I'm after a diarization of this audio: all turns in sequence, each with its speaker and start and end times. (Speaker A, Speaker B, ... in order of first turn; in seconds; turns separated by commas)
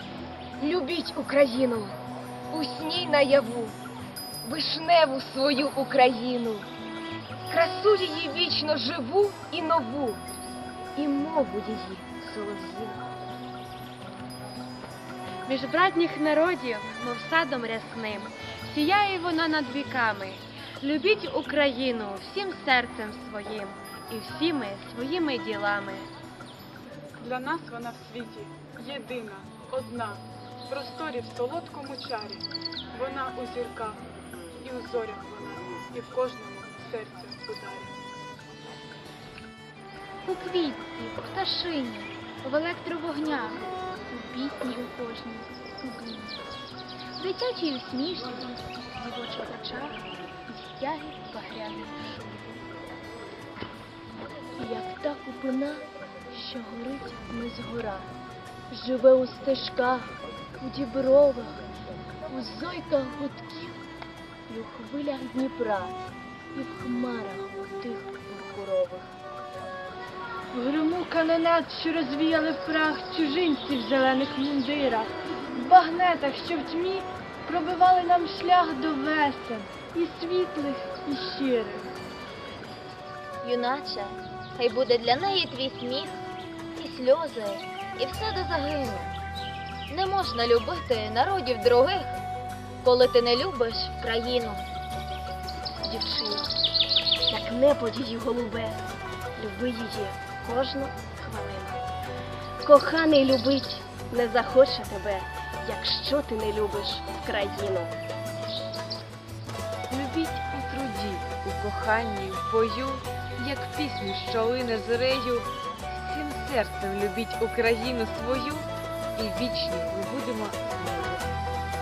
Speaker A: 0.6-2.0, Speaker A: 2.5-3.8, Speaker A: 4.4-6.7, Speaker A: 7.5-10.2, Speaker A: 10.9-13.0, Speaker B: 15.4-26.1, Speaker C: 27.2-34.0, Speaker C: 34.6-37.9, Speaker D: 40.2-46.4, Speaker D: 47.2-52.6, Speaker A: 54.6-58.1, Speaker A: 58.7-61.7, Speaker A: 62.3-63.8, Speaker A: 64.5-66.0, Speaker A: 66.5-69.1, Speaker E: 71.1-71.8, Speaker E: 72.7-73.5, Speaker E: 74.1-75.1, Speaker E: 75.6-80.4, Speaker E: 81.0-81.9, Speaker F: 83.4-89.1, Speaker F: 89.9-92.2, Speaker F: 92.8-94.7, Speaker A: 95.8-96.5, Speaker A: 97.3-98.8, Speaker A: 99.4-101.8, Speaker A: 102.6-108.0, Speaker G: 109.9-121.2